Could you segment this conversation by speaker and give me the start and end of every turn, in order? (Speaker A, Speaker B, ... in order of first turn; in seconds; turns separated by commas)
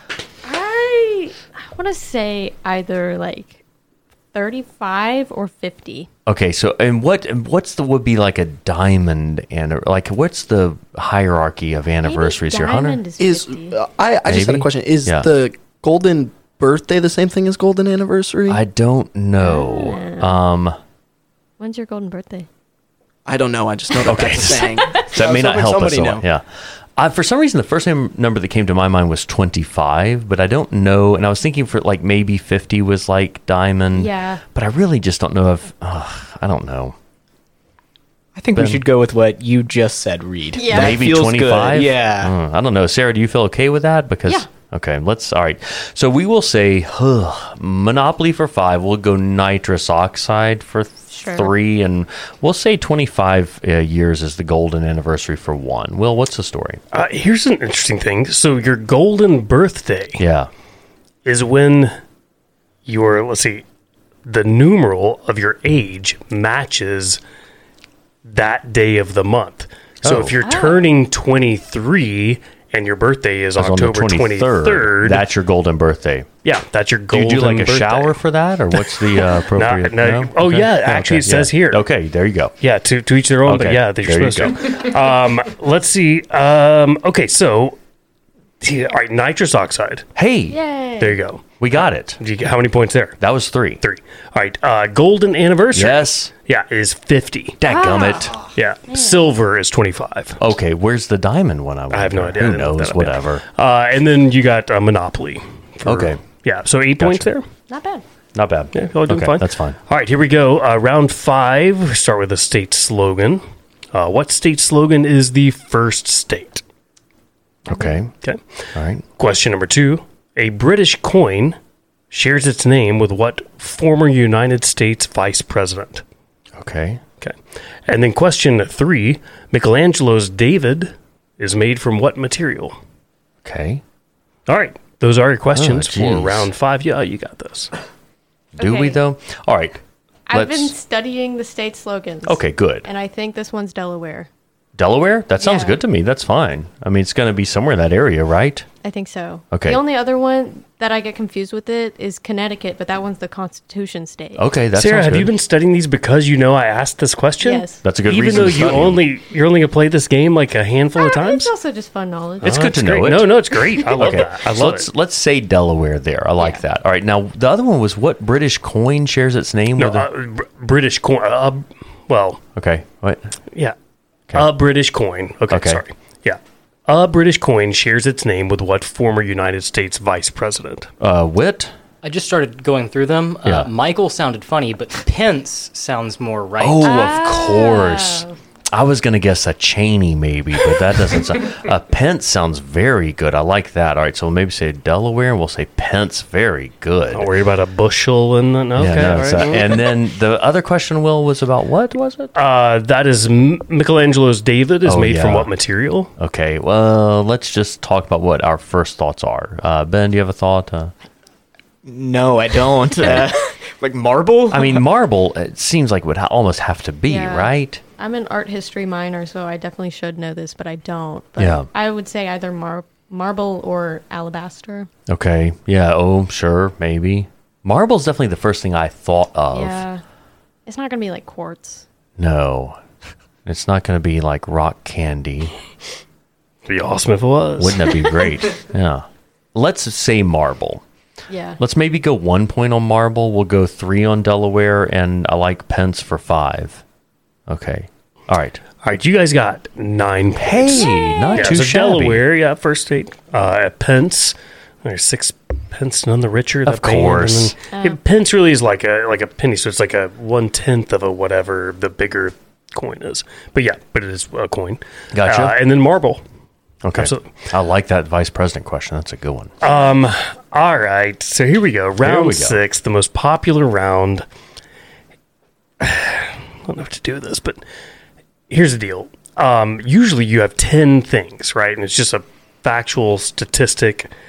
Speaker A: 0.5-3.6, Speaker A: 4.3-6.1, Speaker B: 6.3-13.0, Speaker A: 12.0-13.8, Speaker C: 13.2-18.6, Speaker B: 14.3-15.3, Speaker B: 18.5-20.8, Speaker A: 19.4-20.4, Speaker A: 21.6-22.5, Speaker C: 23.3-26.2, Speaker B: 24.0-37.0, Speaker A: 24.8-25.1, Speaker A: 33.9-34.4, Speaker D: 38.4-42.3, Speaker B: 38.5-38.8, Speaker A: 40.5-41.1, Speaker B: 40.7-56.8, Speaker A: 51.1-51.5, Speaker E: 56.9-60.2, Speaker B: 60.2-60.5, Speaker E: 61.2-61.9, Speaker E: 62.9-63.6, Speaker E: 64.3-67.2, Speaker E: 68.2-75.3, Speaker B: 70.0-70.4, Speaker A: 70.4-70.9, Speaker B: 73.6-76.3, Speaker E: 76.4-78.2, Speaker B: 77.1-82.5, Speaker E: 78.8-81.8, Speaker E: 82.6-87.8, Speaker B: 83.4-84.7, Speaker E: 88.6-90.1, Speaker B: 90.2-90.6, Speaker A: 90.5-91.2, Speaker E: 91.0-91.4, Speaker B: 91.6-92.2, Speaker E: 92.2-93.2, Speaker B: 93.2-93.8, Speaker E: 93.8-97.6, Speaker B: 95.7-96.3, Speaker B: 97.6-98.3, Speaker A: 97.7-99.3, Speaker E: 98.5-100.4, Speaker B: 100.4-103.4, Speaker E: 101.9-107.5, Speaker B: 105.8-106.2, Speaker B: 107.0-107.3, Speaker A: 107.7-108.0, Speaker B: 108.3-109.8, Speaker E: 108.7-113.4, Speaker E: 113.9-116.6, Speaker B: 117.7-118.1, Speaker A: 117.7-118.0, Speaker B: 118.8-119.0, Speaker E: 119.2-121.6, Speaker E: 122.1-126.0, Speaker B: 126.5-127.0, Speaker E: 127.9-132.8, Speaker B: 133.4-133.8, Speaker E: 134.5-137.7, Speaker B: 135.5-136.5, Speaker B: 138.6-139.8, Speaker A: 138.6-139.0, Speaker A: 140.3-144.3, Speaker B: 140.3-140.7, Speaker B: 142.2-142.9, Speaker B: 144.8-148.7, Speaker A: 145.4-145.8, Speaker A: 148.8-154.4, Speaker B: 149.5-149.8, Speaker B: 154.4-155.3, Speaker E: 154.8-161.5, Speaker A: 157.4-157.8, Speaker B: 157.8-159.0, Speaker A: 161.0-162.6, Speaker E: 162.4-164.9, Speaker B: 162.4-170.1, Speaker E: 169.8-172.4, Speaker B: 172.6-173.3, Speaker E: 174.3-180.9, Speaker B: 175.5-175.8, Speaker B: 181.0-181.7, Speaker F: 182.0-187.1, Speaker B: 183.4-183.7, Speaker B: 186.6-197.3, Speaker A: 186.8-188.3, Speaker E: 197.1-199.8, Speaker B: 198.8-202.3, Speaker E: 202.3-206.1, Speaker B: 204.8-205.5, Speaker B: 206.2-210.9, Speaker D: 211.8-214.8, Speaker B: 214.5-217.8, Speaker A: 217.1-224.9, Speaker B: 221.4-221.7, Speaker B: 225.1-229.8, Speaker A: 229.5-230.0, Speaker A: 230.7-231.8, Speaker B: 232.2-232.8, Speaker B: 233.4-235.6, Speaker E: 236.7-238.0, Speaker B: 237.6-240.8, Speaker A: 241.3-241.6, Speaker B: 241.6-246.8, Speaker B: 247.5-248.6, Speaker E: 248.8-266.2, Speaker B: 250.4-252.2, Speaker A: 250.8-251.6, Speaker B: 256.7-257.6, Speaker A: 257.7-258.0, Speaker B: 265.1-265.6, Speaker B: 266.8-269.5, Speaker E: 266.9-267.3, Speaker E: 269.6-274.2, Speaker B: 272.0-272.6, Speaker E: 275.8-277.6, Speaker E: 278.5-284.1